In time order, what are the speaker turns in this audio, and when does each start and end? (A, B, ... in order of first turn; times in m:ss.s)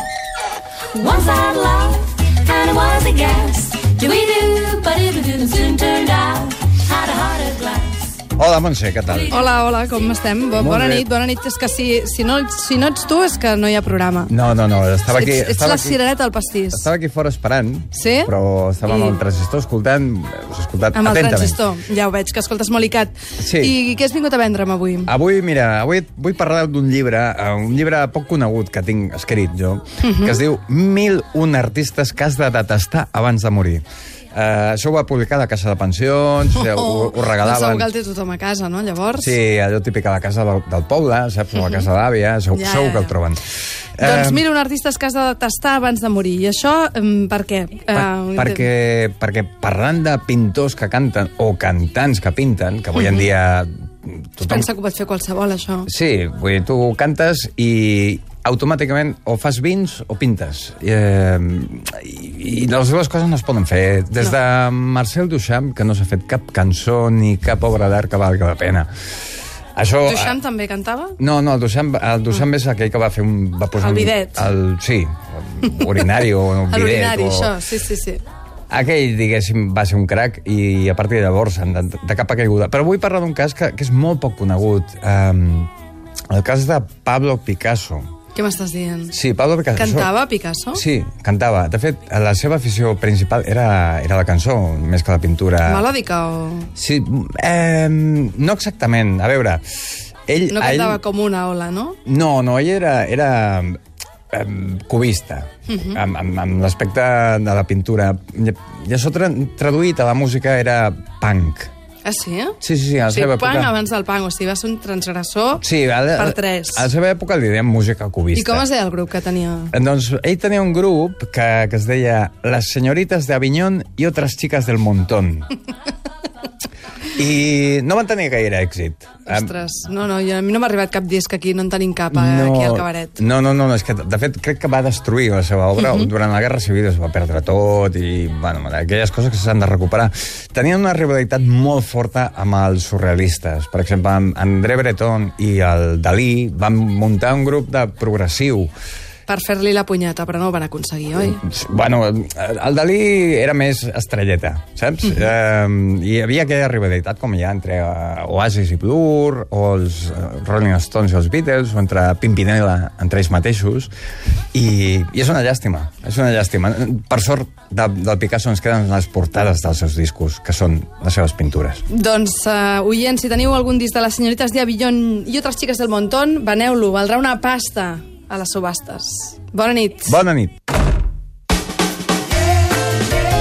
0:00.9-0:08.0 A
0:08.4-0:09.4 B
0:09.3-0:14.3 C
0:10.6-0:11.1 B
0:14.3-0:16.0 B
0:15.1-0:16.9 C
0:16.7-0:21.6 B
0:17.9-0:18.3 C
0:18.8-0:19.2 C
0:20.9-0:25.1 C
0:23.4-0:23.8 B
0:25.1-0:37.9 B
0:30.0-0:30.4 C
0:36.6-0:39.4 C
0:39.2-0:44.4 B
0:41.6-0:41.9 C
0:42.5-0:43.1 C
0:44.0-0:48.6 C
0:47.9-0:54.7 B
0:54.4-0:55.9 C
0:55.9-1:08.9 B
1:09.8-1:10.4 B
1:10.0-1:11.2 C
1:11.2-1:17.5 B
1:13.8-1:14.5 C
1:16.7-1:18.2 C
1:18.7-1:25.7 B
1:26.3-1:28.1 B
1:28.3-1:29.2 C
1:29.1-1:30.1 B
1:29.8-1:30.8 C
1:30.7-1:35.9 B
1:35.7-1:36.7 C
1:36.8-1:41.0 B
1:40.5-1:42.0 C
1:42.1-1:43.8 B
1:44.3-1:51.7 B
1:45.7-1:46.0 C
1:52.0-1:52.6 C
1:52.6-1:53.7 B
1:53.1-1:56.9 C
1:55.6-1:58.7 B
1:58.3-1:59.7 C
1:59.7-2:05.5 B
2:07.2-2:09.5 B
2:09.3-2:13.2 C
2:12.1-2:28.7 B
2:15.8-2:16.1 C
2:29.3-2:31.4 C
2:31.2-2:43.9 B
2:44.5-2:51.8 B
2:51.9-3:00.2 C
3:00.1-3:00.6 B